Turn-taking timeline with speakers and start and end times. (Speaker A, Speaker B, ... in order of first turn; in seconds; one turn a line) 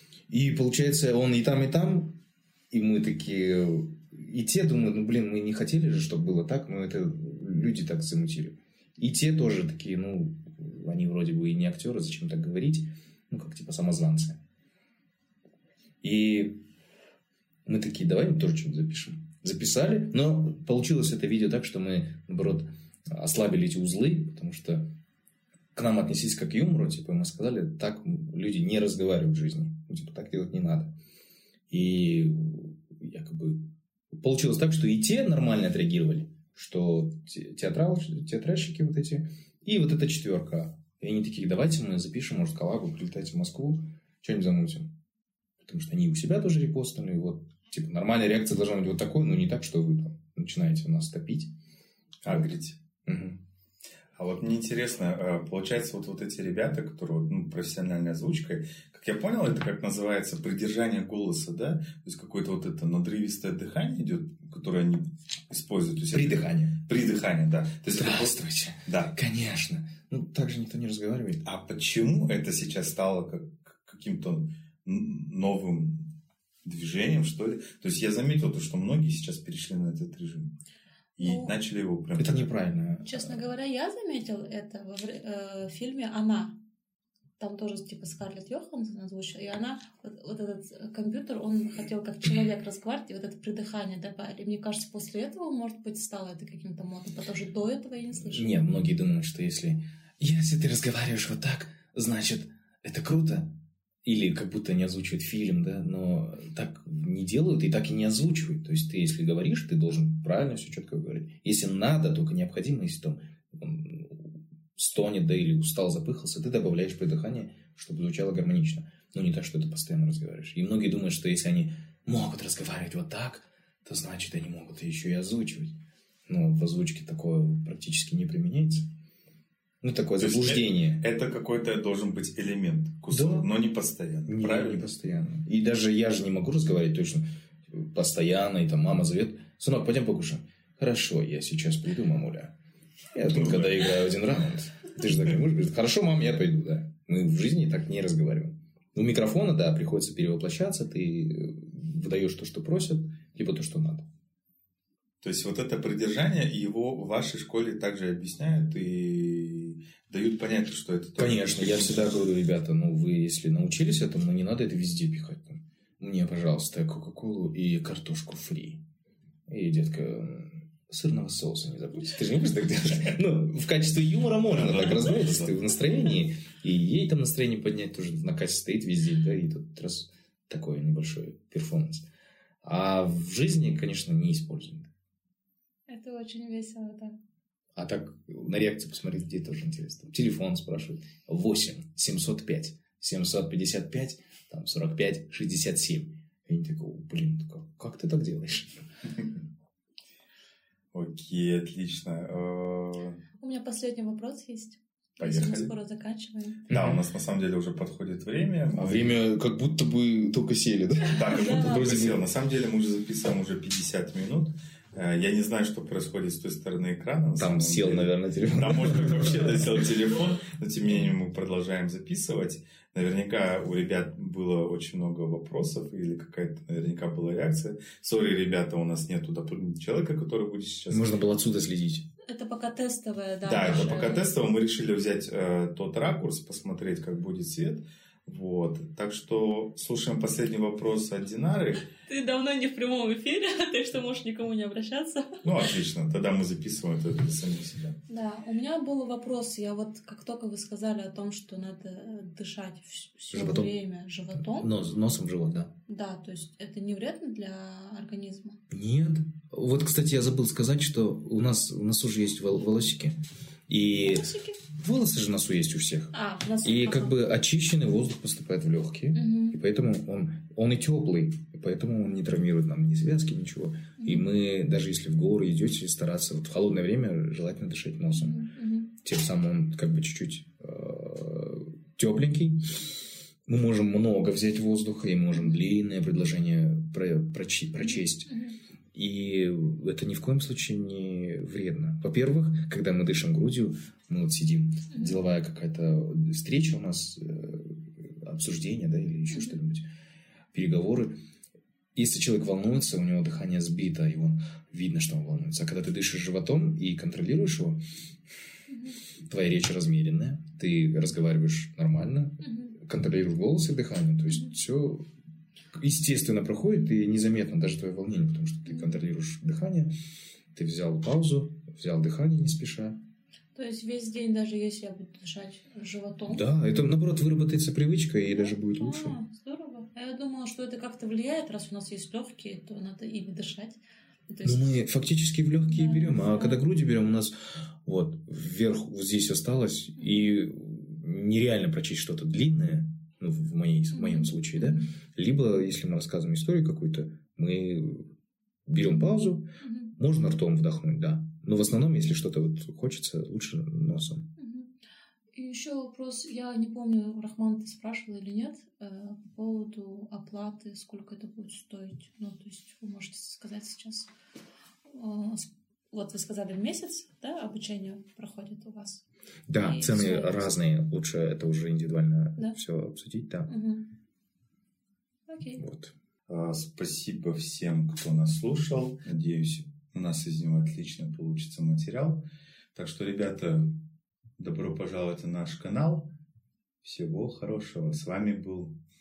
Speaker A: 0.3-2.2
Speaker A: 2.7-14.4
Speaker A: 16.0-16.6
Speaker A: 17.7-24.9
Speaker A: 25.7-30.9
Speaker A: 31.7-44.9
Speaker A: 45.6-51.5
Speaker B: 52.2-52.8
Speaker A: 52.3-52.5
Speaker A: 53.0-53.4
Speaker B: 54.2-69.1
Speaker A: 66.1-66.8
Speaker A: 67.9-71.4
Speaker B: 71.4-76.1
Speaker B: 76.7-80.5
Speaker B: 81.2-82.5
Speaker C: 81.2-81.5
Speaker A: 82.1-83.4
Speaker C: 83.0-86.6
Speaker C: 87.4-98.6
Speaker A: 98.1-103.5
Speaker A: 104.0-128.9
Speaker A: 129.8-131.1
Speaker B: 130.2-134.8
Speaker A: 133.1-133.5
Speaker A: 134.3-142.6
Speaker A: 143.1-154.1
Speaker B: 143.3-144.0
Speaker B: 155.2-162.1
Speaker A: 161.2-168.8
Speaker A: 169.5-182.1
Speaker B: 174.5-175.6
Speaker A: 182.6-184.9
Speaker C: 185.9-187.2
Speaker A: 187.8-198.8
Speaker B: 200.9-203.2
Speaker C: 203.4-206.7
Speaker B: 205.2-205.7
Speaker B: 206.7-209.2
Speaker A: 206.7-207.0
Speaker A: 208.8-212.2
Speaker B: 211.1-231.2
Speaker C: 211.2-212.0
Speaker A: 217.4-219.8
Speaker A: 230.9-232.1
Speaker C: 232.2-234.3
Speaker B: 233.4-241.9
Speaker C: 242.1-245.4
Speaker B: 245.4-248.0
Speaker C: 248.1-254.7
Speaker A: 253.3-253.7
Speaker A: 254.4-255.7
Speaker C: 255.9-258.6
Speaker A: 258.7-288.3
Speaker C: 264.0-264.6
Speaker C: 266.1-267.2
Speaker C: 269.1-269.6
Speaker C: 274.0-274.3
Speaker C: 278.1-278.9
Speaker C: 287.8-288.6
Speaker A: 288.9-299.9
Speaker C: 294.9-295.2
Speaker C: 299.3-299.6
Speaker A: 300.5-301.2
Speaker A: 301.9-307.8
Speaker C: 308.7-309.0
Speaker A: 309.2-315.1
Speaker C: 312.4-312.8
Speaker C: 314.3-314.5
Speaker A: 315.7-319.9
Speaker C: 318.7-319.0
Speaker A: 320.5-323.0
Speaker C: 323.6-326.5
Speaker A: 326.3-329.2
Speaker C: 328.3-334.7
Speaker A: 334.4-348.1
Speaker C: 335.7-336.6
Speaker C: 340.0-340.3
Speaker C: 343.9-344.9
Speaker A: 348.7-354.3
Speaker C: 349.6-349.9
Speaker C: 354.4-354.8
Speaker C: 355.4-364.1
Speaker C: 364.9-369.0
Speaker A: 369.5-373.5
Speaker C: 369.6-370.5
Speaker C: 373.5-373.9
Speaker C: 375.3-375.6
Speaker A: 375.6-375.9
Speaker B: 376.3-382.2
Speaker B: 382.8-383.8
Speaker B: 384.4-386.1
Speaker B: 386.8-388.8